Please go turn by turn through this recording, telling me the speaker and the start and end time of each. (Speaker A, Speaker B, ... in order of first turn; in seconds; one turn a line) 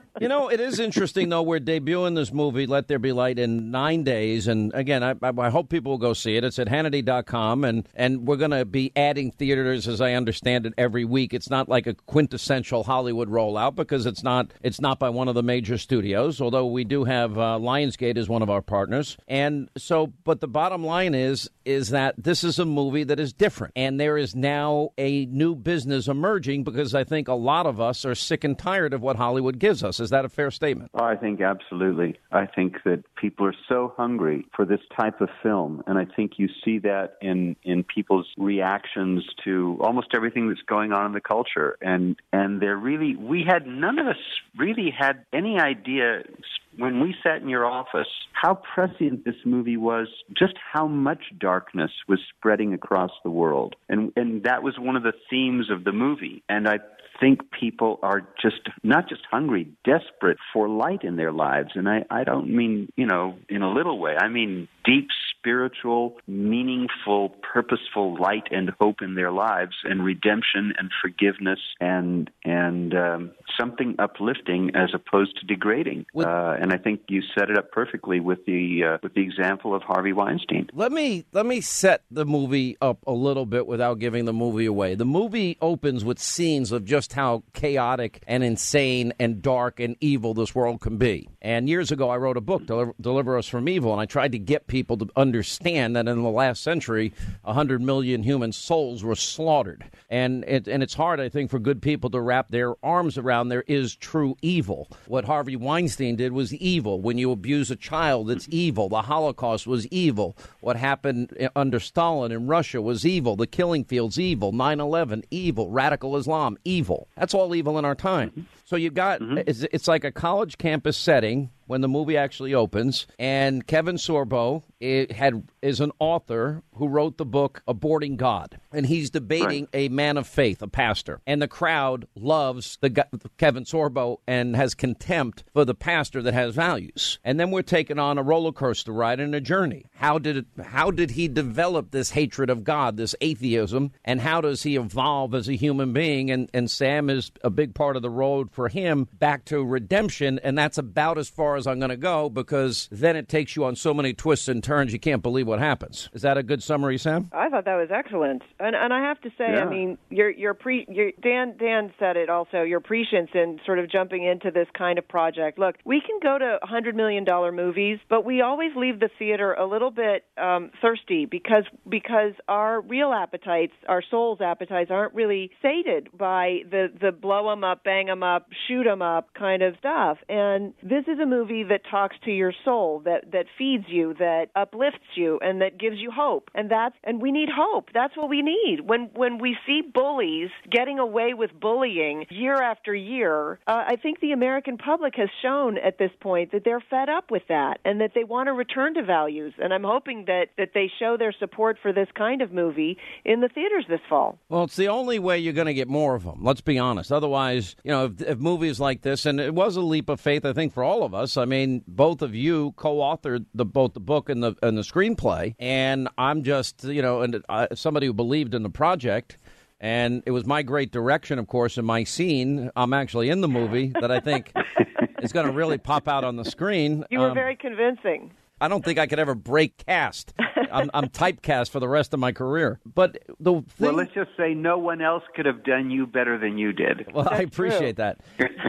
Speaker A: 0.2-30.9
Speaker B: 30.9-80.7
Speaker A: 80.7-157.3
Speaker C: 157.3-204.4
Speaker B: 159.5-159.8
Speaker A: 204.5-224.6
Speaker A: 225.2-227.5
Speaker C: 227.1-228.3
Speaker A: 228.6-234.1
Speaker B: 233.8-237.1
Speaker A: 237.1-238.2
Speaker C: 237.3-237.9